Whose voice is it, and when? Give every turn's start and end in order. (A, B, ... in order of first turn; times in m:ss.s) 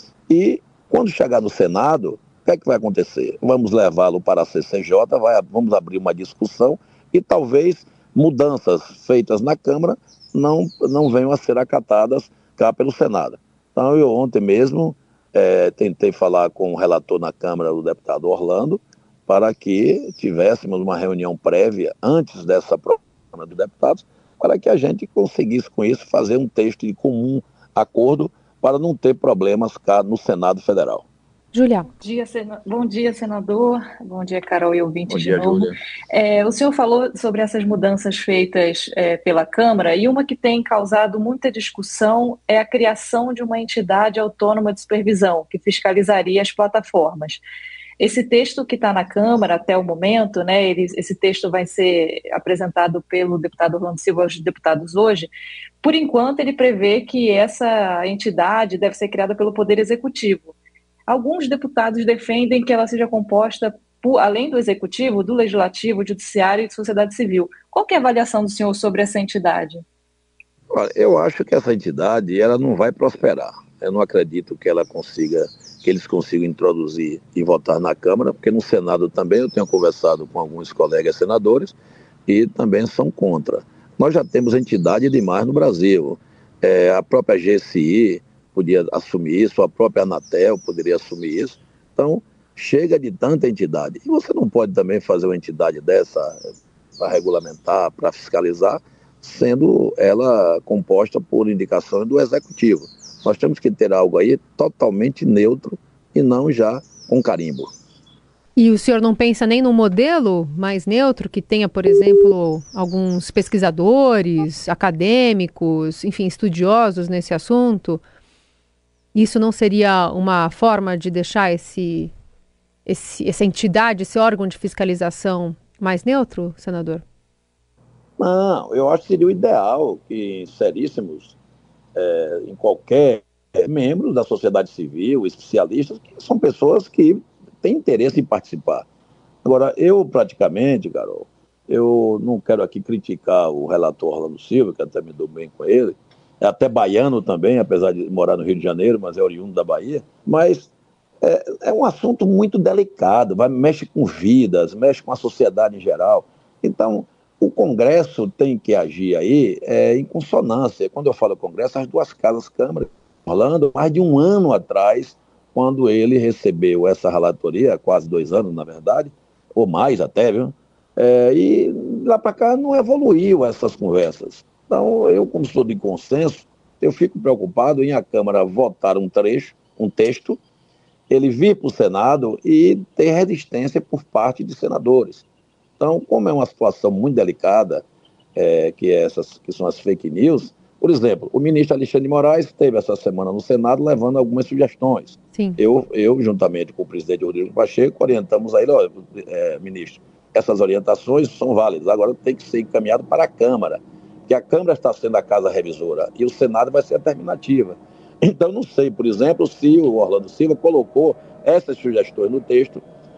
0:00.3-0:31.1 A
0:31.5-0:31.9 B
0:32.0-0:47.4 C
0:35.1-0:35.8 A
0:48.0-0:55.3 C
0:55.8-1:00.6 C
1:01.1-1:09.8 C
1:10.7-1:21.8 A
1:22.3-1:36.4 A
1:37.0-1:47.7 A
1:48.6-1:58.0 B
1:59.1-2:02.1 B
2:02.8-2:07.0 B
2:08.2-2:11.4 A
2:12.0-2:18.8 A
2:19.4-2:30.7 A
2:31.2-3:00.4 A
3:01.1-3:05.2 A
3:05.8-3:07.8 A
3:08.3-3:32.8 A
3:15.3-3:15.6 B